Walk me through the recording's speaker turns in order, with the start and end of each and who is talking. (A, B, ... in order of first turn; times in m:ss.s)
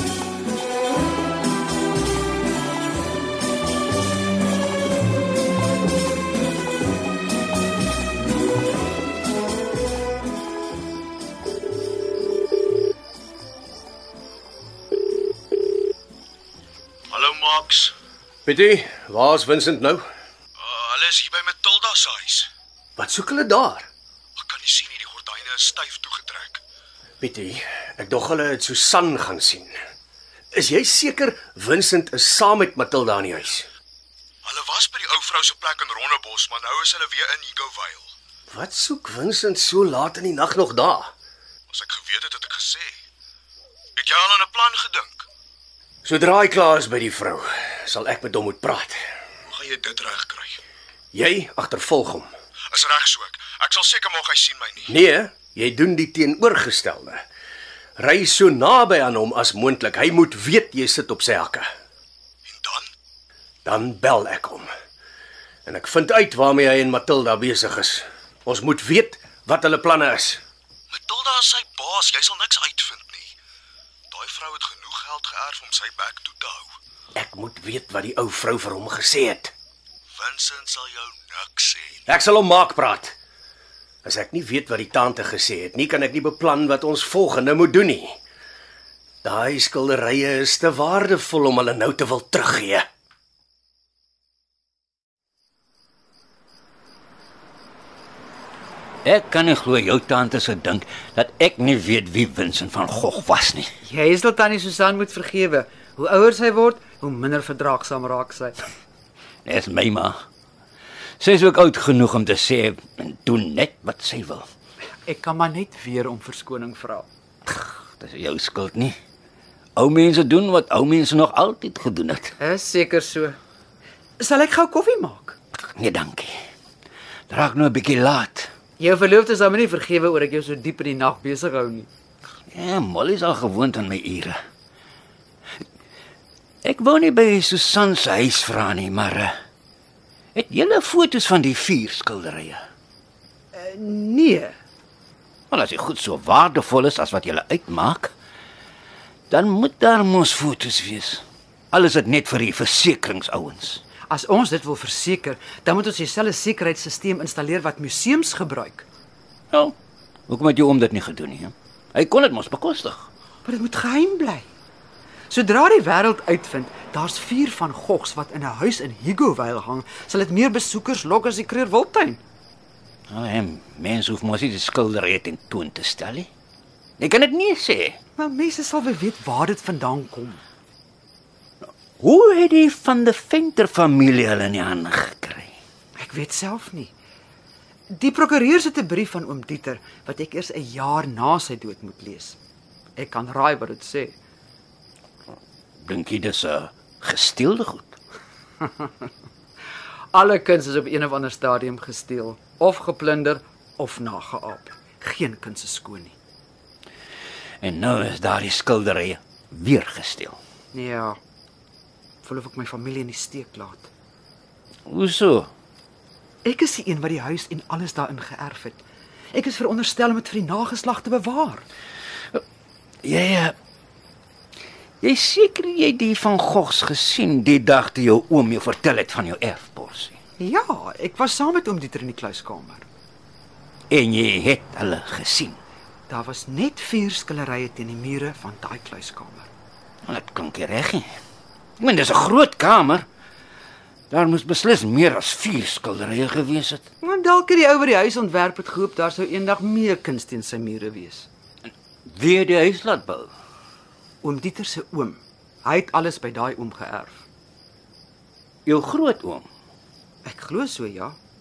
0:17.1-0:17.9 A
0:18.5-0:20.0 B
0:20.6-0:22.5 A
0:23.0-0:23.9 B
0:24.4-0:26.6 A
0:27.2-0:29.8 B
0:30.5-0:33.7 B
0:34.4-0:38.1 A
0:38.5-0:41.1 B
0:41.7-0:43.0 A
0:44.0-0:45.3 A
0:46.0-0:49.0 B
0:49.5-0:50.6 A
0:51.1-0:52.3 B
0:52.7-0:55.0 A
0:54.9-0:57.2 B
0:58.0-1:01.7 B
1:02.5-1:02.9 A
1:03.6-1:04.7 B
1:05.7-1:10.4 B
1:10.9-1:13.3 A
1:14.1-1:16.7 A
1:17.2-1:19.5 B
1:20.2-1:22.0 A
1:22.1-1:23.2 B
1:24.0-1:28.2 B
1:29.2-1:32.9 B
1:39.0-1:43.7 C
1:43.8-1:48.6 D
1:49.4-1:50.2 C
1:51.2-1:54.5 C
1:55.0-1:57.1 D
1:57.5-1:59.0 C
1:59.8-2:02.4 C
2:02.4-2:03.4 D
2:04.2-2:05.4 D
2:05.8-2:06.4 C
2:07.3-2:08.5 C
2:08.8-2:11.9 D
2:12.5-2:14.4 C
2:16.6-2:19.3 C
2:20.4-2:22.6 C
2:23.5-2:24.6 D
2:25.5-2:28.1 C
2:29.3-2:33.8 C
2:34.1-2:38.9 D
2:40.3-2:43.1 C
2:43.4-2:44.5 D
2:45.3-2:52.2 D
2:53.1-2:56.3 C
2:57.0-2:58.0 C
2:58.2-3:00.4 D
3:01.6-3:05.5 C
3:06.0-3:06.9 D
3:07.9-3:12.4 D
3:13.0-3:14.2 D
3:15.8-3:18.0 C
3:18.6-3:18.9 D
3:20.1-3:26.2 D
3:27.6-3:30.4 C
3:30.7-3:31.2 D
3:32.2-3:33.9 D
3:34.9-3:35.5 C
3:36.4-3:38.8 D
3:39.3-3:41.6 D
3:43.0-3:43.6 C
3:45.0-3:50.2 C
3:50.4-3:52.9 D
3:53.9-3:55.6 C
3:56.1-3:59.5 D
4:00.1-4:01.1 C
4:01.8-4:03.1 C
4:04.1-4:06.8 C
4:07.0-4:11.3 D
4:11.6-4:13.3 C
4:14.2-4:17.2 D
4:18.7-4:19.5 C
4:20.2-4:21.2 D